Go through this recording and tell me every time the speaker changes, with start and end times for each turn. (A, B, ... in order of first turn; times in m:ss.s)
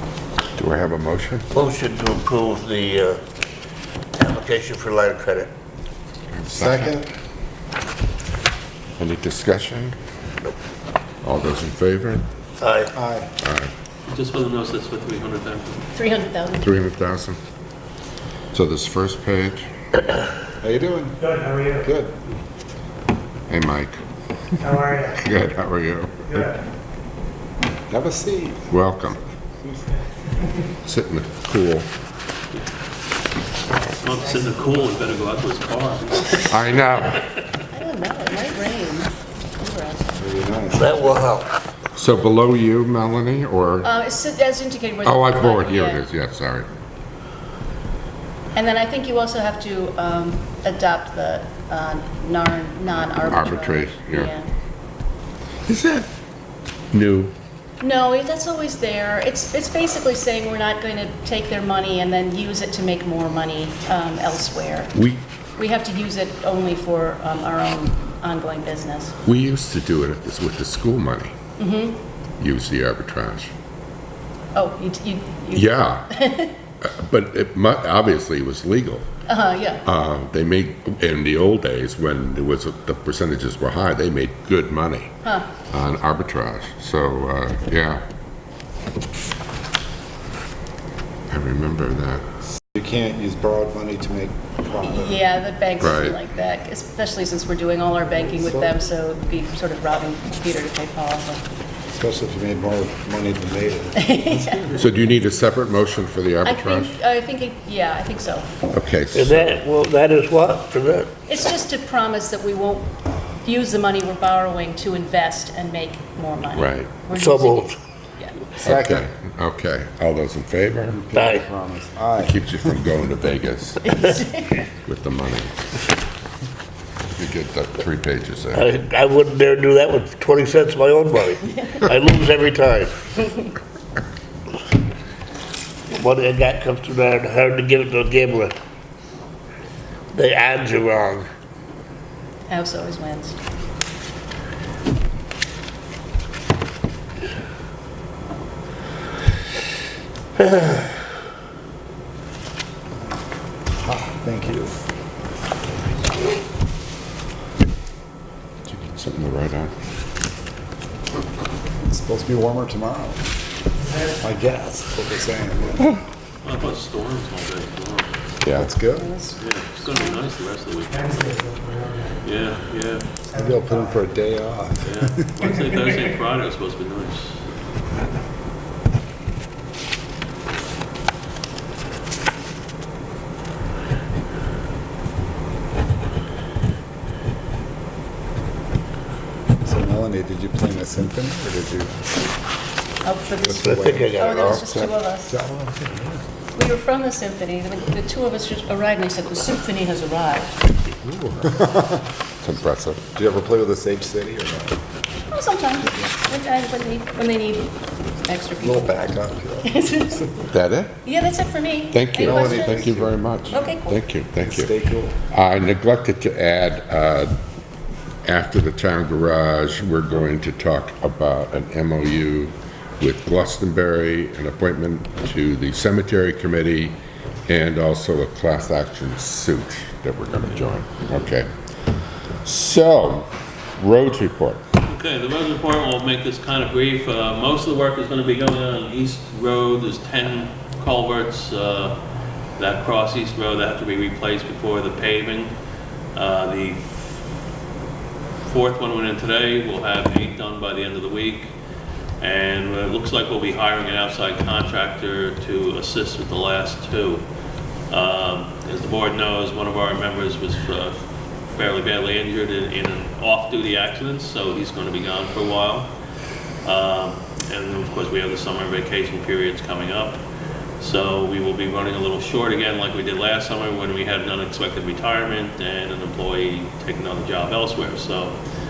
0:00.6-0:01.5 A
0:01.5-0:03.2 B
0:04.2-0:05.5 B
0:06.3-0:07.0 A
0:06.5-0:07.1 C
0:09.0-0:09.9 A
0:11.2-0:12.2 A
0:12.6-0:12.9 B
0:12.9-0:13.3 C
0:13.4-0:13.7 A
0:14.1-0:15.8 D
0:15.9-0:16.7 E
0:16.6-0:17.4 A
0:18.5-0:19.6 A
0:20.6-0:21.2 C
0:21.2-0:21.8 F
0:21.8-0:22.1 C
0:23.5-0:24.0 A
0:24.6-0:26.5 A
0:24.7-0:25.0 F
0:27.9-0:28.7 C
0:28.7-0:29.2 A
0:30.8-0:31.8 A
0:34.0-0:36.6 D
0:36.5-0:37.2 A
0:37.7-0:40.1 E
0:40.2-0:41.3 C
0:40.7-0:41.5 B
0:42.0-0:43.9 A
0:43.8-0:46.0 E
0:45.0-0:46.7 A
0:48.5-0:54.5 E
0:53.3-0:54.3 A
0:55.7-0:56.1 A
0:56.9-0:57.3 A
0:57.8-1:04.9 E
1:05.0-1:05.2 A
1:05.6-1:09.2 E
1:09.2-1:11.3 A
1:11.6-1:12.0 E
1:12.4-1:13.5 A
1:14.5-1:16.5 E
1:15.5-1:16.1 A
1:16.8-1:19.0 A
1:19.2-1:19.8 E
1:19.8-1:25.1 A
1:25.2-1:25.5 E
1:25.7-1:28.0 A
1:31.3-1:32.2 A
1:32.7-1:35.2 C
1:34.8-1:41.4 E
1:35.8-1:36.2 A
1:38.4-1:38.7 C
1:41.9-1:44.6 C
1:44.0-1:44.8 E
1:44.7-1:46.9 A
1:46.4-1:48.5 E
1:48.7-1:49.6 A
1:49.1-1:51.1 B
1:51.3-1:58.5 E
1:56.5-1:56.9 A
1:57.1-1:57.8 B
1:58.6-1:59.0 C
1:58.6-2:01.0 A
2:00.9-2:02.4 C
2:01.1-2:01.5 B
2:02.2-2:04.1 A
2:03.9-2:04.4 E
2:04.8-2:05.6 A
2:07.2-2:08.7 A
2:08.5-2:13.0 B
2:15.9-2:18.5 B
2:20.1-2:21.3 B
2:22.5-2:23.4 E
2:33.7-2:34.8 C
2:38.7-2:39.7 A
2:41.8-2:43.2 C
2:43.9-2:44.1 F
2:44.2-2:45.9 C
2:46.4-2:48.1 D
2:48.4-2:48.7 A
2:48.5-2:49.1 C
2:48.9-2:50.2 E
2:49.4-2:51.3 D
2:51.1-2:52.1 F
2:52.2-2:53.1 D
2:53.3-2:55.3 C
2:54.8-2:57.4 D
3:09.6-3:12.1 C
3:13.0-3:15.4 E
3:13.4-3:14.1 C
3:13.5-3:14.6 B
3:14.3-3:14.9 A
3:15.3-3:16.2 C
3:16.5-3:20.6 E
3:21.1-3:21.6 A
3:22.4-3:23.0 A
3:23.1-3:24.8 C
3:25.3-3:28.9 E
3:28.6-3:29.7 C
3:29.6-3:30.3 E
3:30.5-3:31.0 A
3:31.0-3:32.9 E
3:31.9-3:34.8 A
3:32.2-3:33.1 C
3:33.5-3:33.9 E
3:34.4-3:35.2 C
3:35.3-3:37.3 A
3:38.2-3:51.5 A
3:52.4-3:54.6 A
3:54.8-4:02.0 D
4:02.6-4:05.5 D
4:06.1-4:06.8 D
4:08.4-4:11.5 D
4:12.2-4:17.2 D
4:17.9-4:25.9 D
4:26.6-4:30.2 D
4:30.8-4:38.4 D